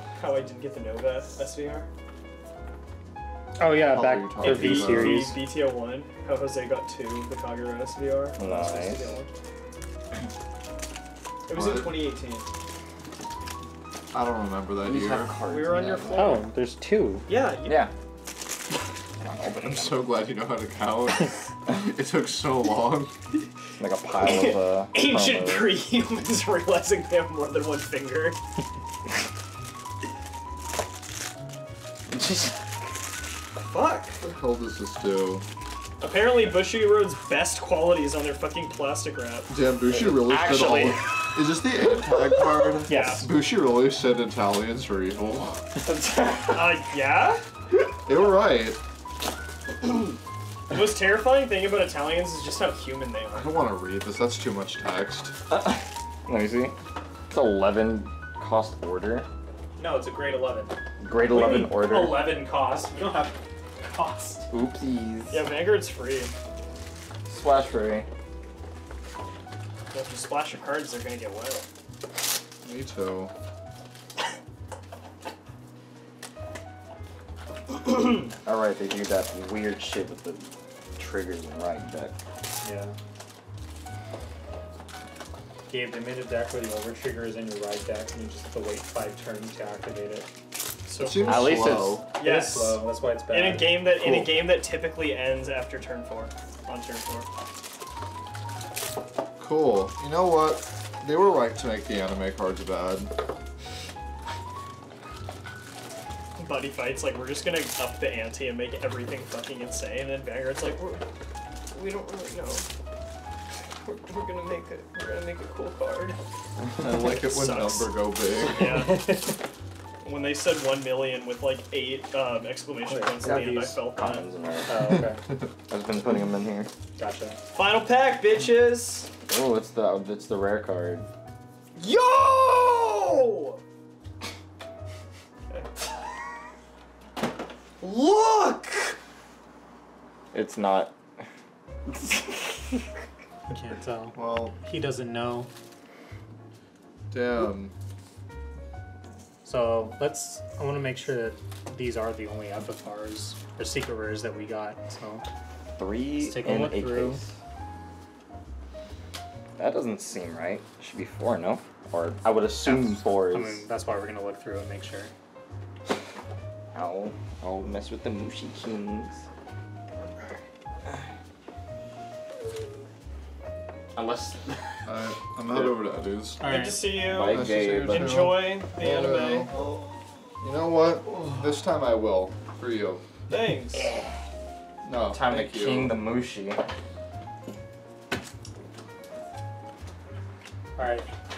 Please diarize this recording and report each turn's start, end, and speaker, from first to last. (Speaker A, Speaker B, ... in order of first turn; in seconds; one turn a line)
Speaker A: 0.2-1.9
Speaker B: 3.6-5.4
Speaker C: 3.6-5.4
Speaker A: 4.4-9.3
Speaker D: 8.4-9.1
Speaker A: 11.5-12.5
Speaker C: 11.5-12.0
Speaker C: 14.1-15.3
Speaker D: 14.8-16.4
Speaker A: 15.4-16.4
Speaker B: 16.1-17.3
Speaker A: 17.3-17.9
Speaker D: 17.6-17.9
Speaker D: 19.2-20.1
Speaker C: 19.6-23.1
Speaker D: 23.8-25.7
Speaker A: 24.2-28.4
Speaker D: 32.2-32.5
Speaker A: 33.5-34.2
Speaker C: 34.2-35.4
Speaker A: 36.0-39.5
Speaker C: 39.5-45.7
Speaker D: 39.9-41.4
Speaker A: 42.8-43.2
Speaker B: 42.9-43.3
Speaker D: 45.8-46.8
Speaker A: 46.5-47.4
Speaker C: 48.0-48.8
Speaker A: 50.7-53.5
Speaker C: 53.3-55.3
Speaker D: 55.5-56.7
Speaker D: 57.3-59.3
Speaker B: 59.8-60.7
Speaker D: 61.0-62.3
Speaker B: 61.3-64.5
Speaker D: 64.5-65.5
Speaker A: 65.3-66.3
Speaker D: 67.3-68.1
Speaker A: 69.9-71.6
Speaker C: 72.6-73.3
Speaker D: 78.4-80.4
Speaker D: 81.0-82.1
Speaker B: 82.6-82.9
Speaker B: 85.7-90.3
Speaker A: 90.8-97.3
Speaker C: 91.0-92.1
Speaker D: 91.2-92.0
Speaker B: 92.2-93.9
Speaker D: 94.0-94.3
Speaker C: 99.4-103.1
Speaker A: 106.4-111.0
Speaker A: 111.7-112.7
Speaker A: 113.8-116.2
Speaker C: 116.8-118.7
Speaker A: 117.2-118.0
Speaker A: 118.5-119.0
Speaker B: 118.6-119.3
Speaker A: 120.0-124.3
Speaker B: 122.9-123.7
Speaker D: 123.3-125.0
Speaker B: 124.7-125.2
Speaker C: 124.8-125.4
Speaker D: 125.7-126.7
Speaker B: 127.0-127.3
Speaker A: 127.5-129.1
Speaker D: 129.2-131.1
Speaker A: 131.8-133.6
Speaker A: 137.8-138.9
Speaker D: 140.3-140.9
Speaker D: 141.9-142.8
Speaker B: 143.5-145.5
Speaker C: 144.1-144.5
Speaker C: 147.1-147.7
Speaker B: 149.4-155.2
Speaker D: 155.8-157.3
Speaker B: 156.2-157.2
Speaker D: 159.6-163.6
Speaker B: 162.6-165.1
Speaker D: 166.7-169.2
Speaker D: 173.9-174.9
Speaker C: 174.8-176.5
Speaker B: 176.4-176.8
Speaker A: 176.4-179.8
Speaker D: 177.0-178.4
Speaker C: 177.0-179.7
Speaker C: 180.4-183.0
Speaker A: 183.3-183.9
Speaker D: 183.7-184.1
Speaker C: 184.8-186.0
Speaker D: 185.1-186.6
Speaker B: 190.8-191.1